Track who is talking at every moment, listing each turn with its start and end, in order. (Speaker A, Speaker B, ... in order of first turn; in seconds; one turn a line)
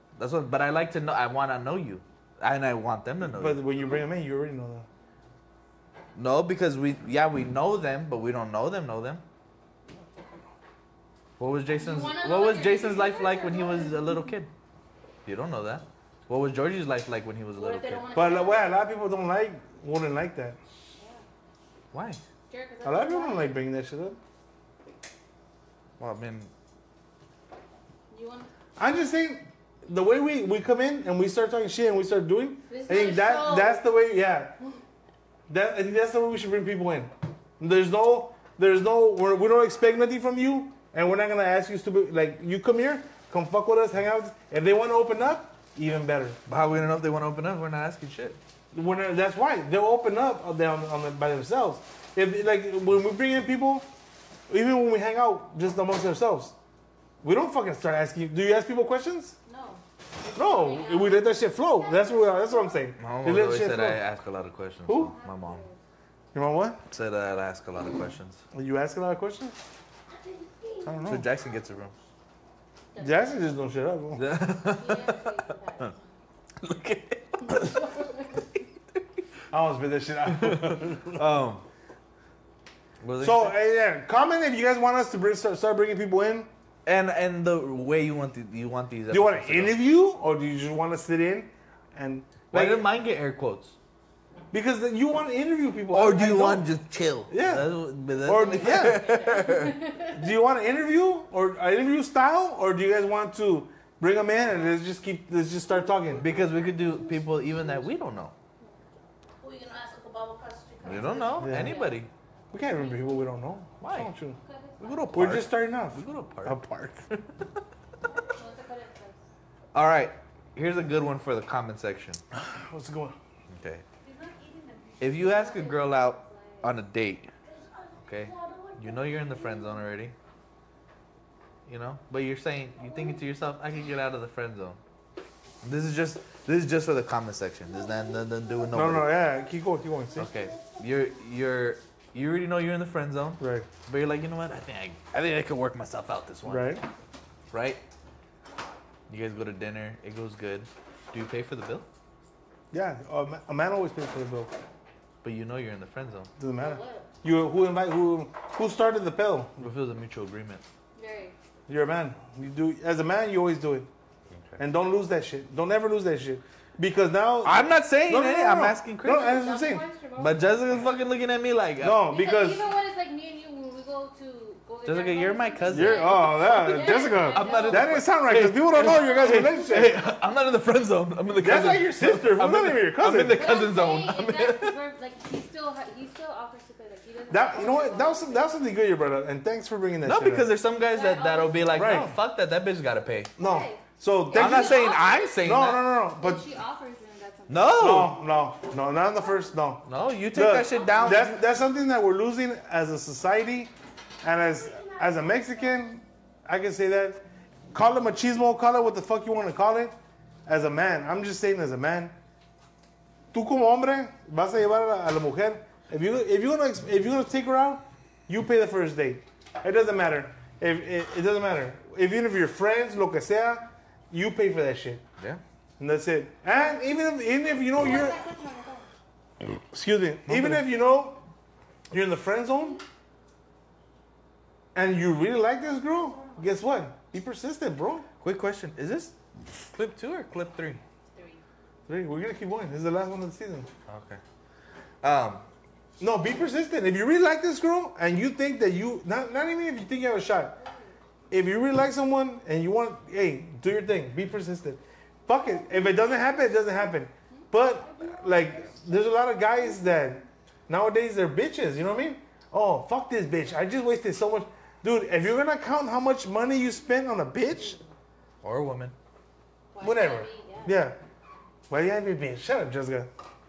Speaker A: 0.2-3.6
Speaker B: 3.2-4.9
Speaker A: 6.2-9.2
Speaker A: 11.4-14.5
Speaker C: 11.8-14.0
Speaker A: 15.2-18.1
Speaker C: 17.5-18.8
Speaker B: 18.1-20.6
Speaker C: 20.9-21.2
Speaker A: 21.9-22.2
Speaker C: 22.5-23.6
Speaker B: 22.8-24.2
Speaker A: 26.0-26.5
Speaker C: 28.1-28.5
Speaker B: 28.8-34.5
Speaker C: 32.7-33.8
Speaker B: 35.5-46.4
Speaker A: 46.5-48.4
Speaker B: 48.7-53.9
Speaker B: 54.5-56.5
Speaker B: 57.2-59.4
Speaker C: 59.5-61.3
Speaker B: 60.3-64.0
Speaker D: 61.8-62.9
Speaker A: 63.0-65.7
Speaker B: 64.9-65.1
Speaker C: 65.1-65.8
Speaker B: 66.3-66.8
Speaker A: 66.9-68.4
Speaker B: 68.5-69.6
Speaker D: 70.1-71.2
Speaker B: 70.8-71.3
Speaker A: 71.0-71.9
Speaker C: 72.9-73.4
Speaker B: 73.0-74.3
Speaker A: 74.2-75.9
Speaker C: 74.6-76.1
Speaker A: 76.6-77.9
Speaker C: 77.5-78.5
Speaker B: 79.5-81.2
Speaker A: 80.3-81.6
Speaker A: 83.0-83.6
Speaker B: 83.2-86.5
Speaker A: 86.8-89.8
Speaker B: 89.1-92.9
Speaker A: 92.5-93.8
Speaker B: 94.5-96.7
Speaker A: 95.9-99.8
Speaker B: 97.3-99.0
Speaker C: 98.5-100.3
Speaker B: 100.1-106.3
Speaker A: 106.2-108.3
Speaker D: 106.4-107.2
Speaker D: 109.4-111.5
Speaker A: 110.8-112.1
Speaker C: 110.9-112.0
Speaker B: 111.4-111.8
Speaker B: 112.5-114.4
Speaker C: 112.7-113.1
Speaker A: 113.8-114.1
Speaker C: 114.4-115.2
Speaker A: 114.8-117.5
Speaker B: 115.1-117.0
Speaker C: 118.0-119.2
Speaker A: 119.7-122.2
Speaker B: 122.3-123.2
Speaker A: 123.5-123.8
Speaker C: 124.0-126.8
Speaker A: 125.0-127.3
Speaker D: 127.4-129.9
Speaker A: 128.1-130.2
Speaker A: 131.7-134.8
Speaker D: 132.8-133.2
Speaker A: 135.6-139.2
Speaker D: 137.7-138.6
Speaker B: 138.7-140.3
Speaker A: 140.2-146.8
Speaker D: 140.2-140.8
Speaker B: 143.4-143.7
Speaker B: 146.5-146.8
Speaker A: 147.5-147.8
Speaker A: 149.1-151.9
Speaker B: 152.7-154.5
Speaker A: 155.2-156.3
Speaker B: 156.4-159.6
Speaker C: 156.6-157.1
Speaker A: 159.6-160.6
Speaker C: 160.9-161.3
Speaker B: 161.7-163.9
Speaker A: 164.3-164.6
Speaker B: 164.6-169.8
Speaker A: 167.4-169.4
Speaker C: 169.1-171.0
Speaker A: 170.2-172.1
Speaker B: 171.8-172.7
Speaker C: 172.1-178.1
Speaker A: 174.8-176.2
Speaker B: 175.7-180.0
Speaker A: 176.8-184.8
Speaker C: 178.7-180.1
Speaker B: 181.4-183.5
Speaker C: 183.3-188.6
Speaker B: 187.3-190.5
Speaker A: 190.0-193.3
Speaker C: 190.9-192.1
Speaker B: 191.7-192.1
Speaker C: 193.4-195.3
Speaker B: 193.4-196.4
Speaker A: 194.3-195.9
Speaker C: 196.2-198.1
Speaker A: 197.5-198.2
Speaker B: 197.8-207.2
Speaker A: 199.9-201.4
Speaker D: 204.6-205.7
Speaker B: 207.7-209.9
Speaker B: 210.5-212.2
Speaker B: 213.3-225.0
Speaker B: 225.8-228.2
Speaker C: 227.7-228.9
Speaker B: 229.7-231.2
Speaker A: 230.3-230.7
Speaker B: 231.9-232.8
Speaker B: 234.7-238.1
Speaker A: 238.2-239.1
Speaker A: 239.7-240.8
Speaker C: 241.1-241.4
Speaker B: 241.9-243.7
Speaker A: 243.9-244.2
Speaker A: 245.0-245.5
Speaker B: 246.0-250.6
Speaker C: 250.7-250.9
Speaker B: 251.3-267.8
Speaker D: 255.7-256.1
Speaker D: 257.8-258.7
Speaker A: 268.4-268.9
Speaker C: 269.7-270.9
Speaker B: 269.8-271.0
Speaker B: 271.7-273.1